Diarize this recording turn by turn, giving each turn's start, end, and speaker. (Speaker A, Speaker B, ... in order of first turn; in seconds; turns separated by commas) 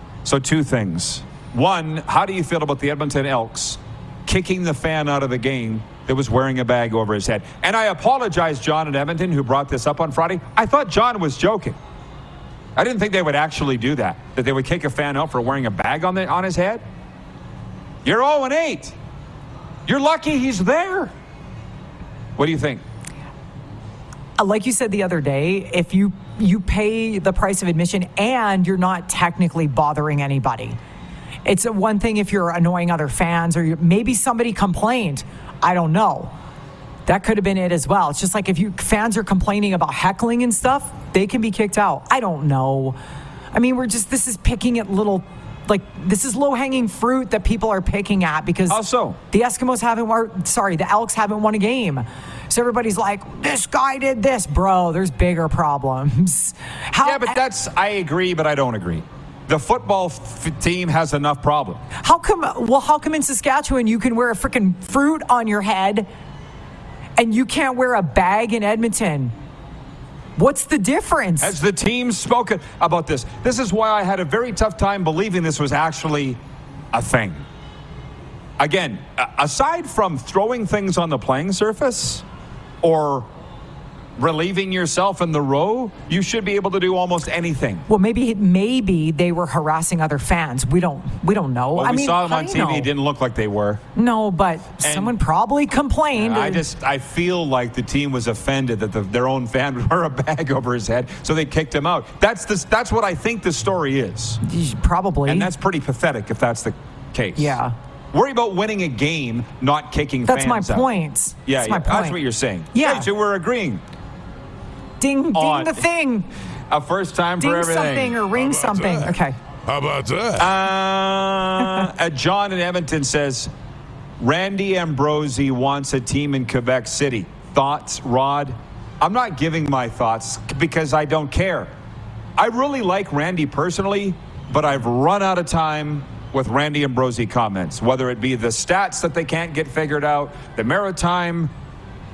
Speaker A: 0.2-11.8, Speaker A: 12.8-16.9, Speaker A: 18.0-18.9, Speaker A: 19.9-21.1, Speaker A: 22.4-22.8, Speaker B: 24.4-30.8, Speaker B: 31.4-36.3, Speaker B: 37.1-43.0, Speaker B: 43.5-57.4, Speaker A: 48.7-49.2, Speaker A: 57.0-61.8, Speaker B: 62.0-66.1, Speaker B: 67.2-69.3, Speaker B: 70.4-71.5, Speaker A: 71.4-76.4, Speaker A: 76.9-77.4, Speaker A: 78.6-82.2, Speaker A: 82.8-83.3, Speaker A: 84.2-87.9, Speaker B: 87.9-92.9, Speaker A: 91.8-93.8, Speaker B: 94.0-96.6, Speaker A: 94.8-95.1, Speaker A: 96.1-104.4, Speaker B: 104.4-105.5, Speaker A: 105.3-107.6, Speaker B: 107.4-107.7, Speaker A: 108.1-110.9, Speaker B: 110.3-112.2, Speaker A: 111.5-113.8, Speaker B: 112.7-113.1, Speaker B: 115.0-116.3, Speaker A: 115.3-115.8, Speaker A: 116.7-118.2, Speaker B: 117.4-119.4, Speaker C: 118.4-120.5, Speaker A: 120.4-123.5, Speaker A: 124.2-131.7, Speaker A: 132.4-141.5